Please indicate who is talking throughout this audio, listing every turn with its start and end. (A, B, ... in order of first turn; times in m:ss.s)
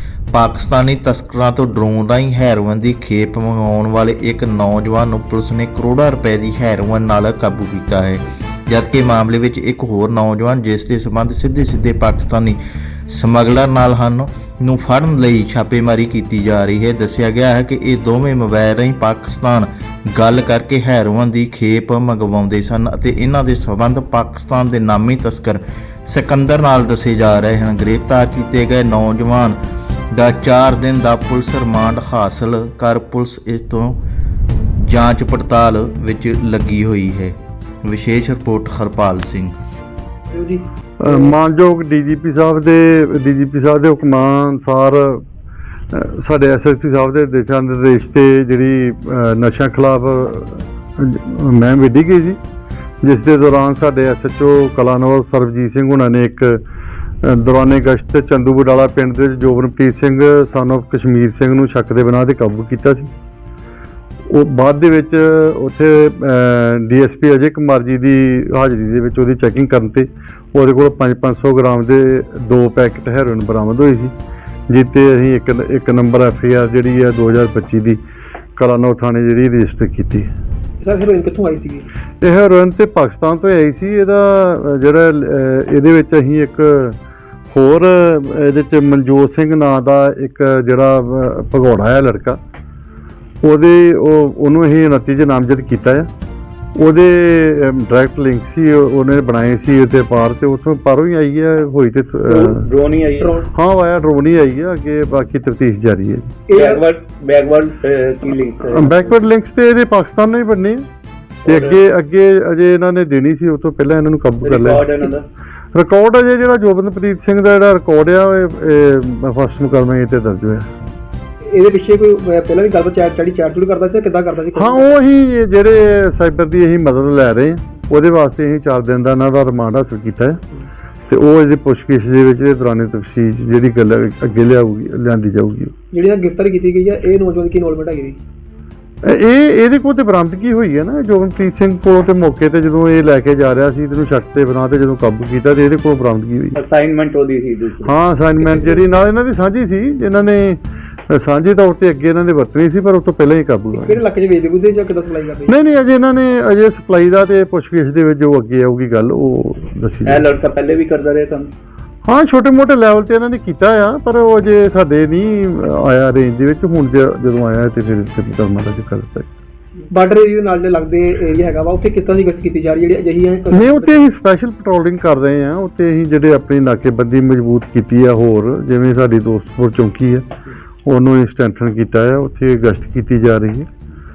0:00.3-0:29.6 A
0:30.1-0:34.0 A
0:34.8-0:39.5 A
0:40.3-0:41.3 B
0:41.0-0:45.2 C
0:45.9-0:52.4 C
0:53.0-0:56.6 C
0:57.2-1:03.1 C
1:04.3-1:14.1 C
1:14.7-1:18.0 C
1:18.6-1:20.3 C
1:20.8-1:21.9 B
1:22.2-1:27.0 C
1:27.5-1:32.4 C
1:33.4-1:36.1 C
1:36.8-1:42.6 C
1:42.3-1:43.4 D
1:43.2-1:43.4 B
1:43.5-1:46.3 C
1:46.5-1:46.8 B
1:46.5-1:49.1 D
1:48.7-1:50.8 C
1:51.4-1:51.8 D
1:51.4-1:54.9 C
1:54.4-1:55.3 D
1:55.7-2:00.7 C
2:01.5-2:04.9 B
2:04.5-2:10.4 C
2:11.1-2:15.7 C
2:15.9-2:18.2 B
2:19.0-2:26.6 C
2:26.5-2:27.9 D
2:27.8-2:34.0 C
2:33.7-2:35.5 B
2:35.5-2:40.2 C
2:40.0-2:41.5 D
2:42.1-2:49.3 C
2:49.9-2:54.0 B
2:53.5-3:00.3 C
3:00.8-3:03.7 C